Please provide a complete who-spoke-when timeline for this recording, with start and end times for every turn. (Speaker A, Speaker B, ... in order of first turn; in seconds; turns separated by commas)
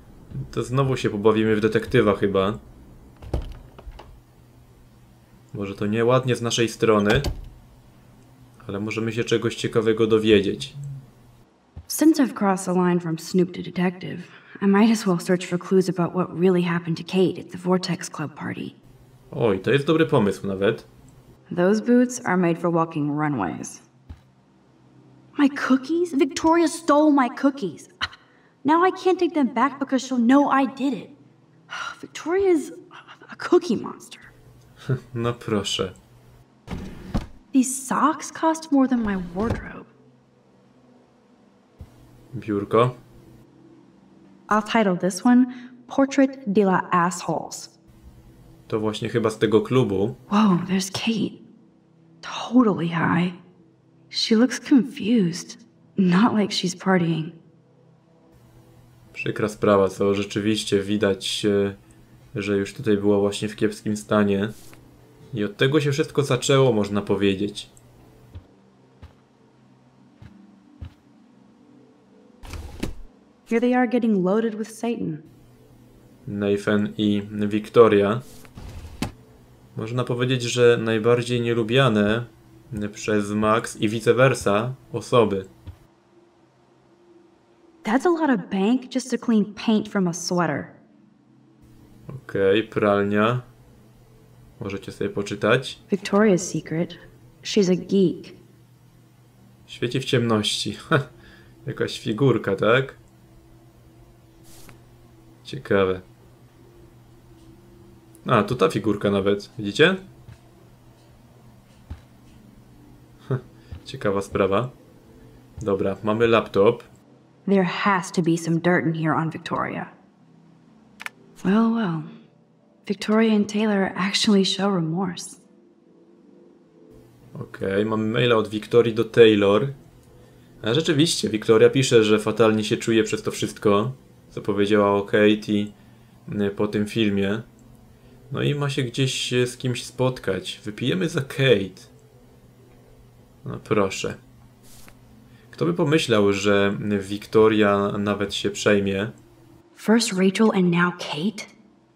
Speaker A: 0.3-2.6, Speaker A: 5.5-7.3, Speaker A: 8.6-10.8, Speaker B: 11.9-18.8, Speaker A: 19.3-20.9, Speaker B: 21.5-23.8, Speaker B: 25.4-27.9, Speaker B: 28.6-31.1, Speaker B: 31.7-34.3, Speaker A: 34.9-36.0, Speaker B: 37.5-39.9, Speaker A: 42.3-43.0, Speaker B: 44.5-47.7, Speaker A: 48.7-50.2, Speaker B: 50.3-51.4, Speaker B: 52.2-53.4, Speaker B: 54.1-57.4, Speaker A: 59.1-61.8, Speaker A: 62.3-64.5, Speaker A: 65.3-67.7, Speaker B: 73.5-75.2, Speaker A: 76.3-78.2, Speaker A: 79.8-85.5, Speaker B: 87.8-90.8, Speaker A: 92.1-93.5, Speaker A: 94.6-95.8, Speaker B: 95.9-98.4, Speaker A: 99.7-101.1, Speaker A: 101.7-103.0, Speaker A: 105.5-106.0, Speaker A: 108.2-110.1, Speaker A: 113.2-114.7, Speaker A: 115.6-116.9, Speaker B: 117.5-119.9, Speaker B: 121.4-122.1, Speaker B: 122.9-125.4, Speaker A: 127.3-129.8, Speaker A: 130.6-135.7, Speaker A: 136.3-137.5, Speaker A: 138.3-141.9, Speaker A: 143.4-144.2, Speaker A: 145.5-149.2, Speaker B: 149.8-151.5